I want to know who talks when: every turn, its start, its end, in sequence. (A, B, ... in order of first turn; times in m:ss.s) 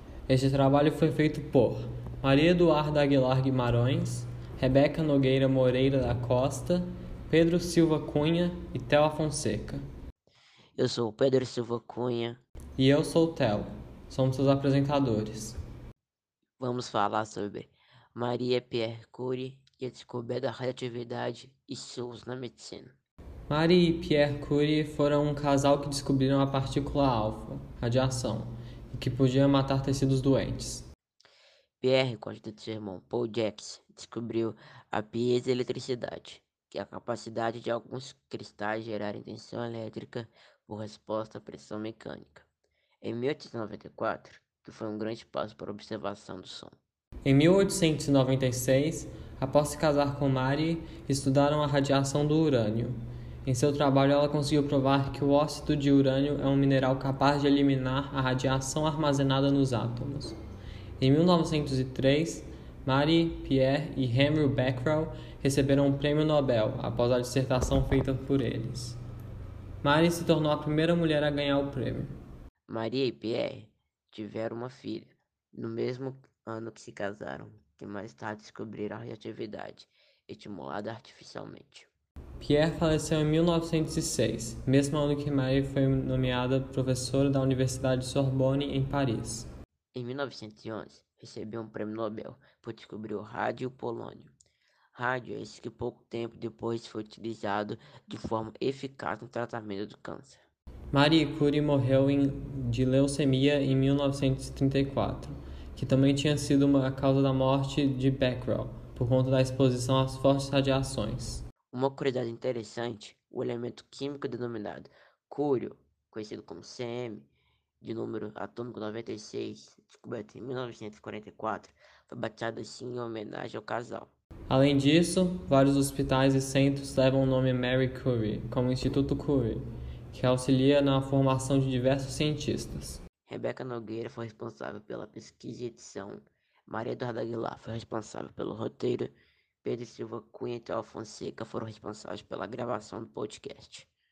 0:00.3-0:09.8 A
0:10.8-0:12.4 B
0:12.8-0:15.6 A
0:16.6-0:22.9 B
0:23.5-0:30.9 A
0:31.8-0:42.5 B
0:43.0-0:46.8 B
0:47.2-1:00.4 A
1:01.0-1:09.0 A
1:09.8-1:12.1 A
1:12.7-1:21.9 B
1:22.4-1:29.5 A
1:29.9-1:34.3 B
1:34.9-1:40.4 B
1:40.9-1:51.4 A
1:51.7-1:57.3 B
1:57.8-2:04.1 B
2:04.5-2:13.0 A
2:13.3-2:23.9 B